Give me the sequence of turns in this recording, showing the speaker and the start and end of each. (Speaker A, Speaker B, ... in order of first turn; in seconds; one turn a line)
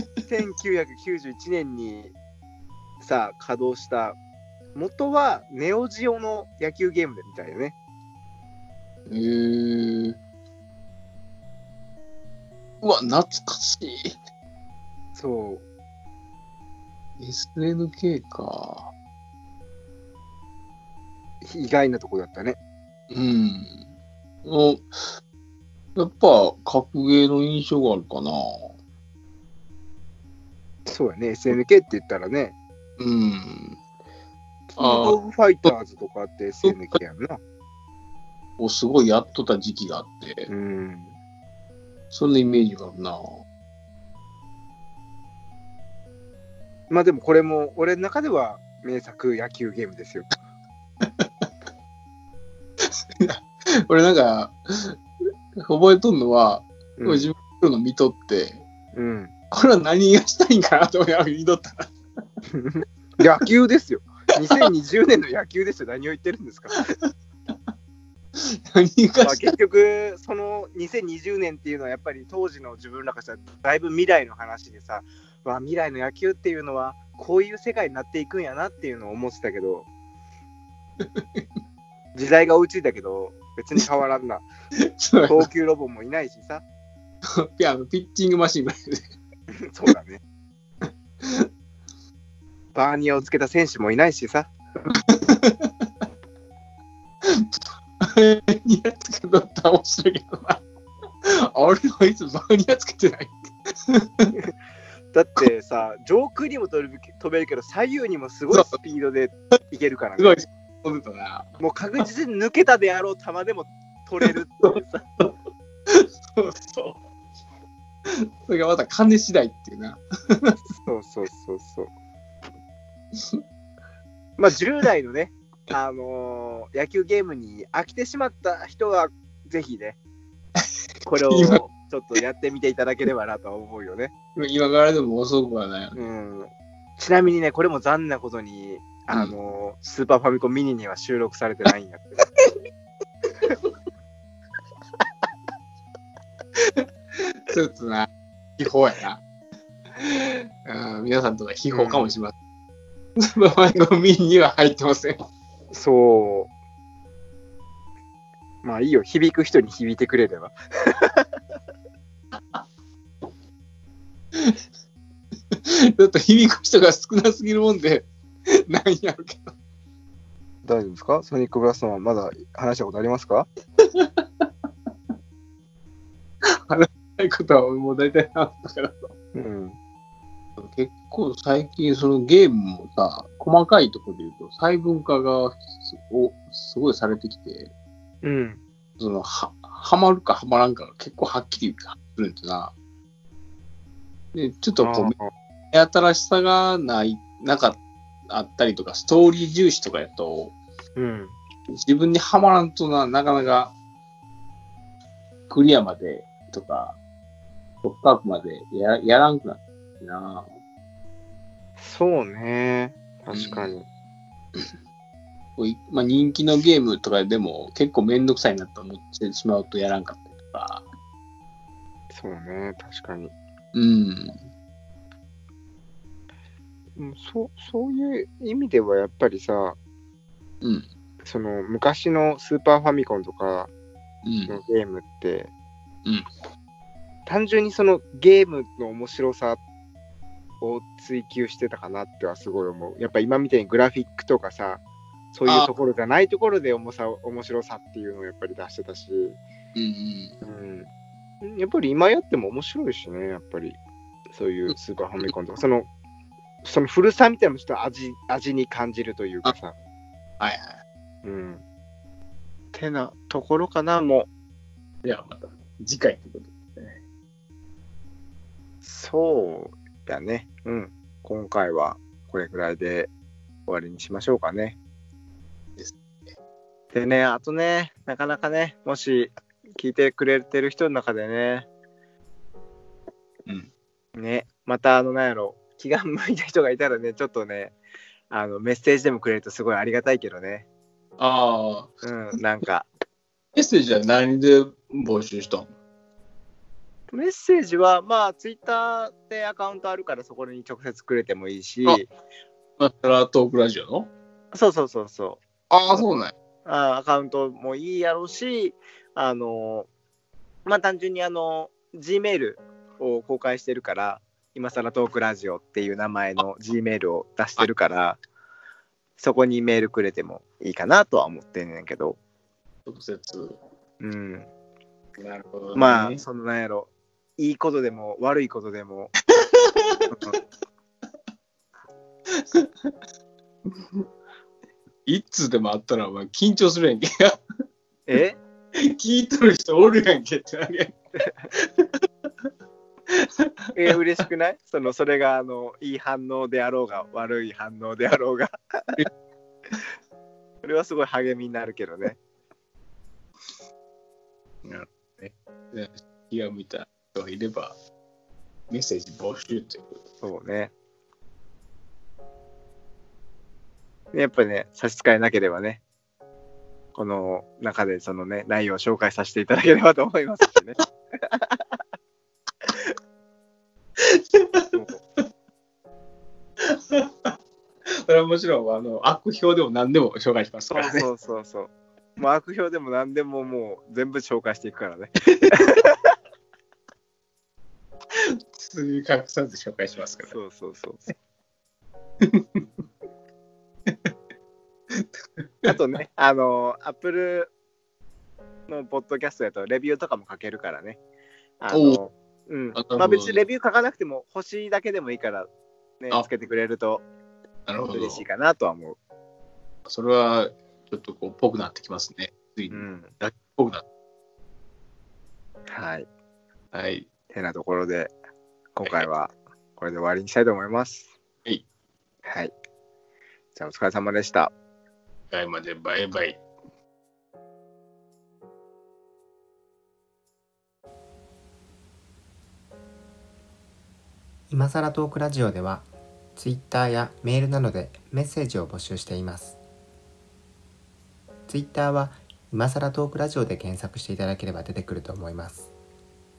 Speaker A: 0.3-2.1
Speaker A: 3.0-4.2
Speaker A: 4.7-7.7
Speaker B: 9.1-10.2
Speaker B: 12.8-14.2
Speaker A: 15.1-15.6
Speaker B: 17.2-18.9
Speaker A: 21.4-22.6
Speaker B: 23.1-23.8
Speaker B: 24.4-25.2
Speaker B: 25.9-28.7
Speaker A: 30.9-32.5
Speaker B: 33.0-33.8
Speaker A: 34.7-37.4
Speaker B: 34.8-35.1
Speaker B: 38.6-40.5
Speaker A: 40.5-41.1
Speaker B: 42.1-43.4
Speaker A: 46.9-50.3
Speaker B: 51.0-51.5
Speaker B: 52.8-55.0
Speaker B: 55.5-58.6
Speaker A: 57.0-57.3
Speaker A: 58.9-59.3
Speaker B: 59.5-61.9
Speaker A: 62.5-66.9
Speaker B: 68.4-69.5
Speaker A: 69.2-79.9
Speaker B: 81.0-81.4
Speaker A: 82.1-84.5
Speaker B: 84.8-85.5
Speaker A: 85.2-86.6
Speaker B: 87.4-89.0
Speaker A: 89.5-90.2
Speaker B: 91.2-91.5
Speaker A: 92.7-94.5
Speaker B: 95.1-95.7
Speaker B: 97.2-100.6
Speaker B: 101.2-104.3
Speaker A: 105.1-110.4
Speaker B: 110.2-112.0
Speaker A: 111.6-115.0
Speaker B: 115.9-117.0
Speaker B: 118.1-120.5
Speaker A: 120.8-121.9
Speaker B: 123.1-123.4
Speaker A: 124.4-130.0
Speaker A: 131.1-134.1
Speaker B: 131.3-131.6
Speaker B: 134.4-136.1
Speaker A: 135.9-142.2
Speaker B: 146.6-149.2
Speaker B: 150.0-152.3
Speaker A: 151.7-152.1
Speaker B: 153.2-155.2
Speaker A: 155.7-156.5
Speaker A: 158.6-161.3
Speaker B: 165.5-169.5
Speaker A: 170.6-173.5
Speaker B: 173.8-174.5
Speaker B: 176.5-179.1
Speaker A: 179.3-179.8
Speaker B: 180.6-187.7
Speaker A: 188.2-188.6
Speaker B: 189.0-192.7
Speaker B: 194.3-195.1
Speaker A: 194.8-195.3
Speaker B: 195.7-200.6
Speaker A: 200.9-201.4
Speaker B: 201.7-203.7
Speaker B: 205.5-207.0
Speaker B: 207.8-210.5
Speaker A: 211.8-213.9
Speaker B: 213.3-213.7
Speaker B: 215.6-220.8
Speaker A: 222.1-223.3
Speaker B: 223.7-224.4
Speaker A: 227.0-229.8
Speaker A: 231.2-233.7
Speaker B: 234.2-234.6
Speaker A: 234.5-235.5
Speaker A: 237.2-239.6
Speaker A: 240.6-244.8
Speaker A: 245.3-249.4
Speaker B: 249.7-250.3
Speaker A: 250.4-250.9
Speaker A: 251.4-253.8
Speaker A: 254.3-255.9
Speaker A: 256.6-259.7
Speaker B: 260.4-260.8
Speaker A: 261.2-261.6
Speaker A: 262.7-264.3
Speaker B: 265.0-267.0
Speaker A: 268.8-273.1
Speaker A: 273.6-274.8
Speaker A: 276.9-281.7
Speaker A: 284.1-287.8
Speaker A: 288.3-290.6
Speaker B: 291.2-291.9
Speaker A: 292.0-292.9
Speaker B: 293.6-295.7
Speaker A: 297.1-302.1
Speaker B: 302.8-304.1
Speaker A: 304.5-305.4
Speaker B: 305.7-306.3
Speaker A: 306.6-309.9
Speaker A: 310.6-318.2
Speaker A: 319.2-322.2
Speaker B: 322.9-323.6
Speaker A: 324.0-324.5
Speaker B: 325.2-326.2
Speaker A: 325.7-329.1
Speaker B: 329.4-330.2
Speaker A: 330.1-330.4
Speaker B: 332.3-332.9
Speaker B: 335.1-337.4
Speaker A: 338.1-338.4
Speaker B: 338.8-341.0
Speaker B: 341.5-342.1
Speaker B: 343.1-343.5
Speaker A: 343.7-349.0
Speaker A: 350.6-352.2
Speaker B: 354.6-357.7
Speaker B: 358.7-359.9
Speaker A: 360.2-360.7
Speaker A: 364.1-365.8
Speaker A: 366.9-371.8
Speaker B: 374.0-374.8
Speaker A: 374.7-375.0
Speaker B: 376.6-377.3
Speaker B: 378.1-381.1
Speaker A: 380.7-386.1
Speaker B: 388.2-390.4
Speaker A: 390.2-391.1
Speaker B: 392.2-392.6
Speaker B: 393.9-394.1
Speaker B: 394.9-395.7
Speaker A: 395.6-397.5
Speaker A: 398.7-401.0
Speaker A: 401.6-405.5
Speaker B: 401.7-402.0
Speaker B: 402.7-403.4
Speaker A: 406.0-407.1
Speaker B: 407.6-408.2
Speaker A: 407.9-409.0
Speaker B: 409.9-413.8
Speaker A: 412.7-413.1
Speaker A: 415.7-416.1
Speaker B: 416.7-417.1
Speaker A: 417.3-418.1
Speaker A: 418.8-421.1
Speaker A: 422.2-422.5
Speaker A: 423.6-424.5
Speaker B: 425.3-426.4
Speaker C: 434.5-439.6
Speaker C: 441.5-445.7